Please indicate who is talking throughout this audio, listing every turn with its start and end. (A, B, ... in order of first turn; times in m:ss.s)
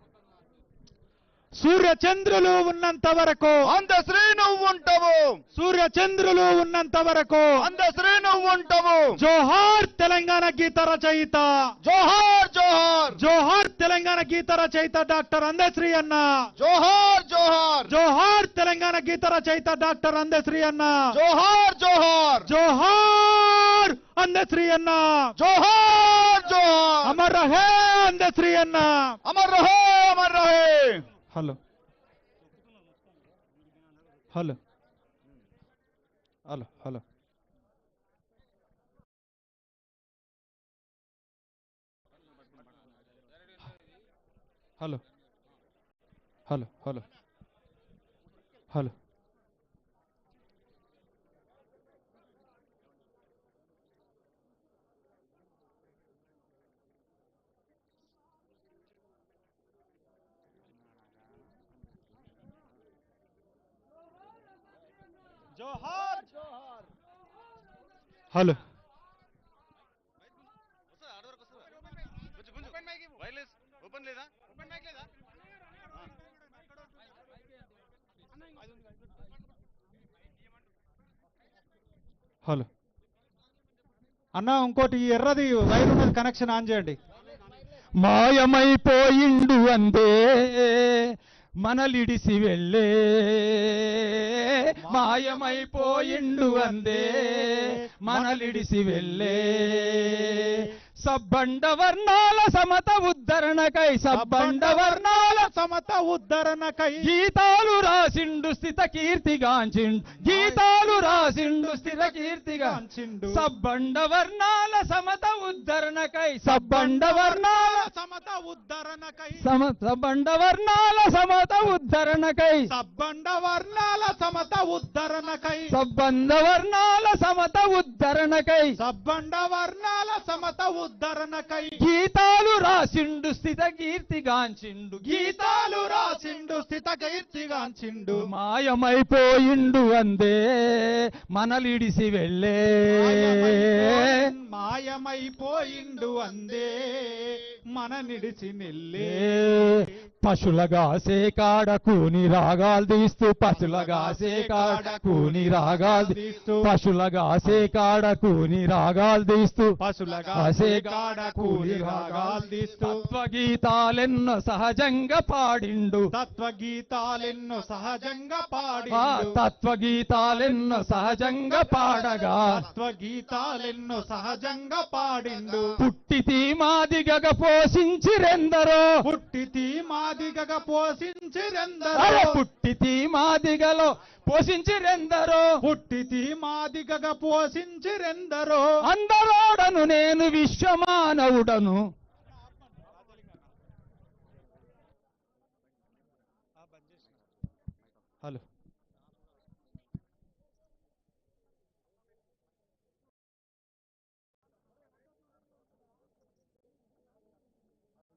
0:01.6-0:03.7 A
0:03.7-0:05.4 B
0:05.6-0:07.6 A
0:07.6-0:09.1 B
0:09.2-0:11.7 A
0:11.8-0:13.2 B
0:13.2-0:16.3 A
0:16.6-0:17.9 B
0:17.9-0:21.1 A
0:21.1-0:22.5 B
0:22.5-0:25.3 A
0:25.4-0:27.1 B
0:27.0-0:29.2 A
0:29.2-0:31.0 B
0:31.3-0:31.6 A
0:34.3-0:34.6 A
0:36.5-0:37.0 A
0:46.5-0:47.1 A
1:05.6-1:06.3 A
1:08.3-1:08.6 A
1:24.4-1:27.0 A
1:28.0-1:45.5 C
1:34.8-1:35.4 A
1:36.1-1:37.0 A
1:37.6-1:38.6 A
1:44.1-1:47.1 A
1:47.0-1:52.8 C
1:50.3-1:53.4 A
1:53.3-1:57.9 C
1:56.5-1:59.5 A
1:59.4-2:02.7 C
2:02.7-2:05.7 A
2:05.7-2:08.7 C
2:08.8-2:11.8 A
2:11.8-2:15.1 C
2:15.0-2:18.3 A
2:18.2-2:24.1 C
2:22.9-2:30.0 A
2:29.0-2:39.8 C
2:33.5-2:36.7 A
2:39.8-2:43.0 A
2:40.4-2:46.1 C
2:46.1-2:49.4 A
2:48.9-2:52.6 C
2:52.6-2:55.8 A
2:55.8-2:58.9 C
2:59.0-3:02.4 A
3:02.0-3:05.5 C
3:05.6-3:08.7 A
3:08.8-3:11.8 C
3:12.8-3:13.4 A